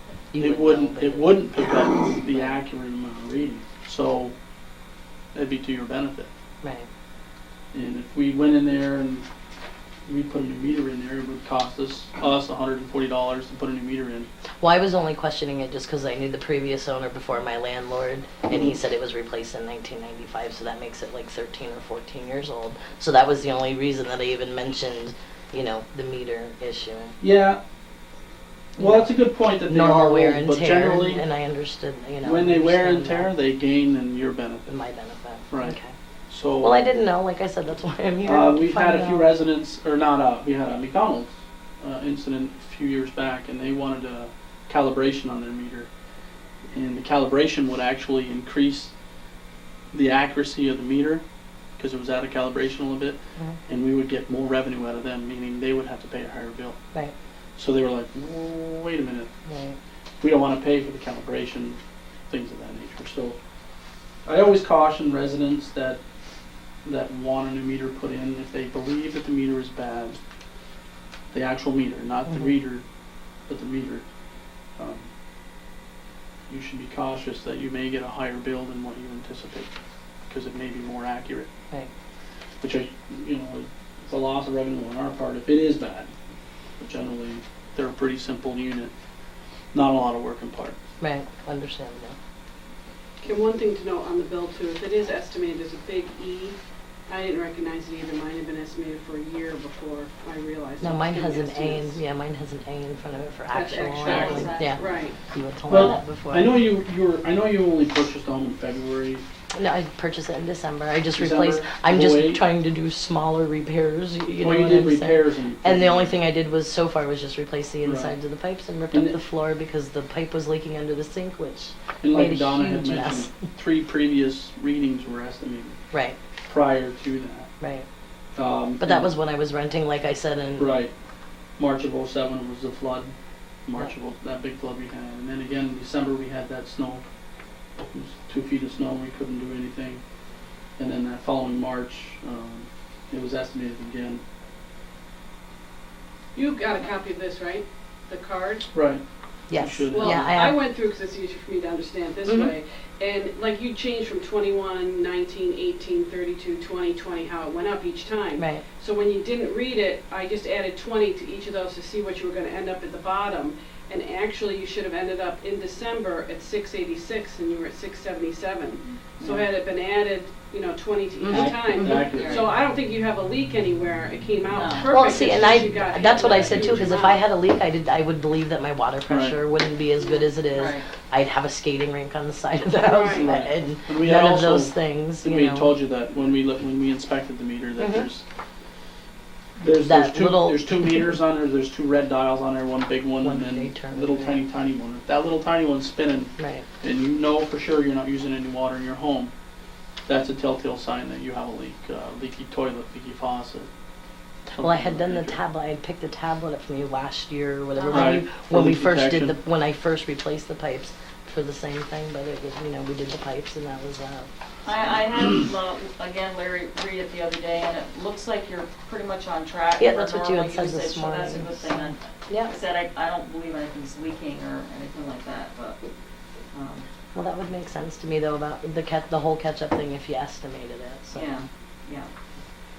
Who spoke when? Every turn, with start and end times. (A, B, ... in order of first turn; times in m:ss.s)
0:00.3-0:02.6 A
0:00.4-0:04.4 B
0:05.3-0:06.3 B
0:07.7-0:09.3 B
0:10.1-0:14.3 B
0:14.6-0:27.2 A
0:27.2-0:27.6 B
0:28.8-0:31.2 B
0:28.8-0:29.1 A
0:29.7-0:33.3 A
0:32.2-0:34.7 B
0:34.7-0:35.9 A
0:35.5-0:35.8 B
0:36.3-0:36.8 B
0:36.6-0:39.3 A
0:38.2-0:45.9 B
0:46.7-0:48.9 B
0:49.9-0:51.2 B
0:51.8-0:56.8 B
0:57.6-0:59.3 B
0:59.5-0:59.8 A
1:00.2-1:01.8 B
1:02.3-1:03.4 B
1:04.3-1:06.0 B
1:06.8-1:10.2 B
1:11.3-1:12.8 B
1:13.5-1:14.0 B
1:14.8-1:15.1 B
1:16.5-1:19.7 B
1:20.3-1:21.5 B
1:22.6-1:26.1 B
1:26.8-1:28.9 B
1:29.7-1:30.8 B
1:31.0-1:32.2 A
1:33.2-1:36.6 C
1:37.1-1:42.0 C
1:40.8-1:46.5 A
1:43.5-1:45.2 C
1:44.0-1:45.1 D
1:44.1-1:44.5 B
1:45.7-1:49.2 B
1:45.7-1:46.0 D
1:49.5-2:03.3 A
1:51.1-1:52.4 B
1:54.4-1:56.2 B
1:57.8-1:58.2 B
1:58.9-1:59.2 B
2:02.0-2:05.8 B
2:06.5-2:07.5 B
2:08.4-2:09.1 B
2:08.8-2:10.8 A
2:10.6-2:10.9 B
2:11.6-2:13.1 B
2:13.7-2:17.0 B
2:17.8-2:20.0 B
2:20.8-2:24.2 B
2:26.4-2:28.7 C
2:28.7-2:30.4 B
2:29.5-2:30.6 A
2:29.9-2:57.2 C
2:32.3-2:32.6 A
2:38.4-2:38.6 A
2:48.9-2:49.4 D
2:51.2-2:52.1 A
2:51.3-2:52.5 B
2:52.1-2:52.5 D
2:54.5-2:54.9 D
2:54.9-3:05.7 A
2:56.1-2:56.8 B
2:59.1-2:59.4 B
3:00.5-3:00.9 D
3:02.9-3:03.3 C
3:03.1-3:08.2 B
3:07.8-3:08.1 A
3:09.6-3:19.3 B
3:09.8-3:11.2 A
3:13.2-3:14.4 A
3:16.4-3:16.7 A
3:20.1-3:23.7 B
3:24.5-3:25.4 B
3:24.6-3:34.3 A
3:27.8-3:28.2 D
3:27.9-3:29.4 B
3:34.6-3:45.8 D
3:39.8-3:42.5 A
3:46.5-3:46.9 D
3:47.2-3:51.3 A
3:51.1-3:52.1 D